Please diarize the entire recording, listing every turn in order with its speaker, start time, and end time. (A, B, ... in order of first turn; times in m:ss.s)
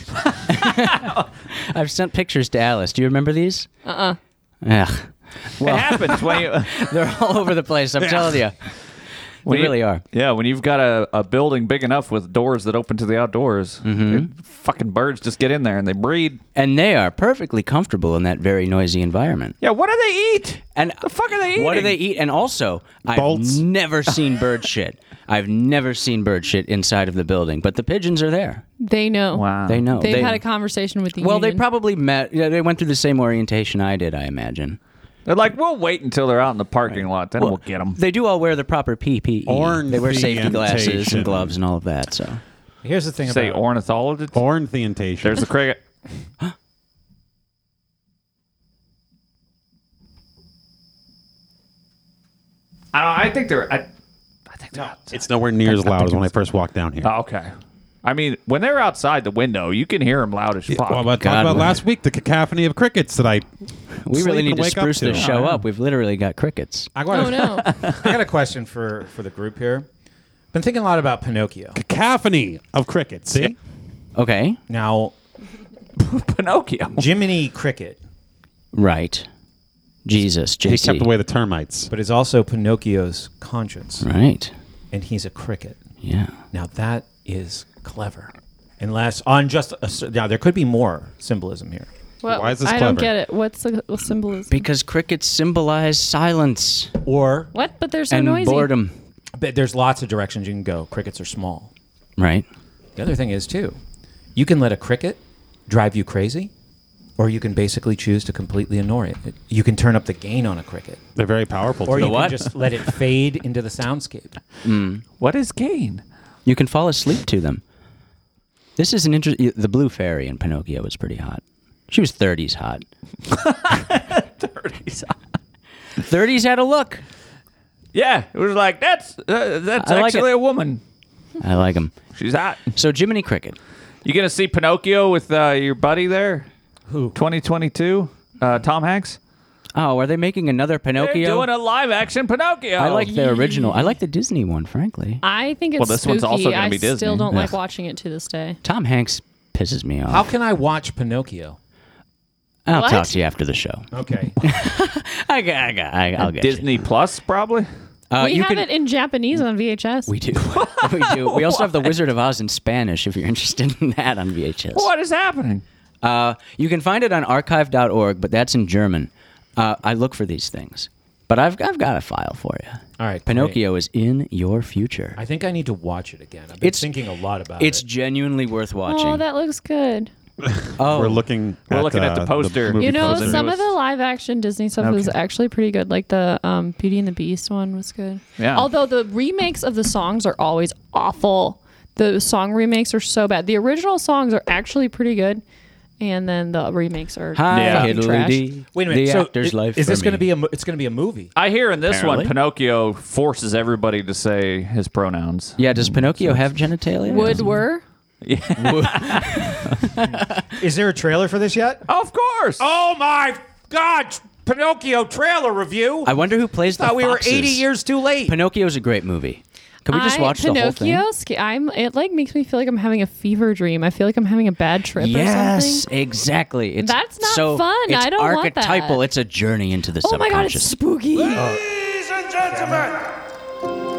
0:00.5-0:03.7 A
0:00.6-0:01.3 B
0:03.8-0:04.2 C
0:04.6-0:08.6 A
0:05.6-0:06.9 B
0:08.0-0:08.4 D
0:09.4-0:10.0 A
0:09.5-0:16.4 B
0:13.8-0:14.3 A
0:16.6-0:19.6 A
0:19.6-0:22.0 B
0:20.8-0:28.6 A
0:23.1-0:23.6 D
0:28.8-0:31.6 C
0:29.3-0:30.4 B
0:29.7-0:30.4 A
0:31.2-0:34.8 A
0:35.2-0:38.0 B
0:36.9-0:42.4 A
0:39.5-0:41.5 D
0:42.8-0:43.6 E
0:43.2-0:44.4 B
0:44.3-0:45.5 D
0:45.2-0:45.8 B
0:52.9-0:53.9 B
0:54.5-0:55.2 B
0:55.1-0:57.1 D
0:57.0-0:57.5 B
0:58.0-1:01.1 B
1:00.7-1:03.5 D
1:01.2-1:01.8 A
1:04.0-1:06.9 A
1:04.1-1:05.6 D
1:05.2-1:05.5 B
1:07.0-1:09.9 E
1:07.1-1:07.7 C
1:10.5-1:11.8 E
1:11.7-1:13.6 D
1:14.2-1:14.6 A
1:14.7-1:15.1 E
1:16.0-1:17.1 B
1:17.0-1:18.0 E
1:18.7-1:19.3 A
1:20.0-1:21.1 A
1:20.6-1:21.9 D
1:21.9-1:24.1 E
1:24.0-1:24.5 A
1:24.9-1:25.8 E
1:26.0-1:26.3 A
1:26.5-1:31.9 E
1:32.2-1:34.7 C
1:32.3-1:33.1 D
1:34.5-1:36.9 A
1:37.0-1:37.5 E
1:37.5-1:38.7 C
1:38.1-1:38.9 A
1:39.4-1:41.7 E
1:42.2-1:42.5 A
1:43.0-1:43.8 E
1:44.4-1:46.5 E
1:47.2-1:51.0 E
1:51.2-1:52.4 D
1:51.9-1:54.4 E
1:52.0-1:52.4 A
1:54.6-1:55.0 A
1:55.2-1:56.0 B
1:56.5-1:57.6 A
1:58.8-2:02.8 A
2:03.3-2:05.2 B
2:06.0-2:07.0 A
2:07.9-2:10.8 B
2:09.8-2:10.3 A
2:11.4-2:11.9 A
2:12.2-2:12.6 B
2:12.8-2:13.6 A
2:14.0-2:16.5 B
2:16.9-2:17.2 E
2:17.1-2:19.2 B
2:19.8-2:21.5 A
2:21.0-2:23.1 B
2:22.8-2:25.2 A
2:23.1-2:24.0 C
2:25.2-2:28.6 C
2:25.8-2:27.3 B
2:28.6-2:30.3 A
2:30.1-2:31.6 E
2:32.7-2:33.9 A
2:32.7-2:33.1 C
2:33.9-2:34.4 E
2:34.4-2:36.8 A
2:36.2-2:37.7 B
2:38.1-2:38.7 A
2:38.2-2:40.1 C
2:40.1-2:44.9 A
2:40.6-2:41.9 B
2:44.8-2:45.6 B
2:46.0-2:55.2 A
2:53.0-2:53.6 E
2:55.2-2:57.8 E
2:56.6-2:56.9 A
2:57.6-2:59.2 A
2:58.9-3:00.1 C
3:00.4-3:03.6 D
3:00.8-3:01.2 A
3:01.7-3:03.7 B
3:02.8-3:15.4 C
3:04.8-3:05.2 B
3:08.4-3:08.7 B
3:16.0-3:18.4 C
3:17.4-3:20.3 A
3:17.5-3:17.9 B
3:18.7-3:21.3 E
3:21.4-3:25.6 B
3:21.9-3:22.3 A
3:25.6-3:27.5 A
3:27.1-3:27.8 C
3:28.2-3:29.5 B
3:28.6-3:30.4 A
3:30.6-3:31.8 E
3:31.9-3:32.6 B
3:32.6-3:36.1 E
3:36.0-3:37.7 A
3:36.7-3:38.4 E
3:38.2-3:41.0 A
3:39.9-3:45.8 C
3:45.0-3:50.7 A
3:46.8-3:49.0 C
3:50.0-3:51.5 C
3:51.1-3:53.1 F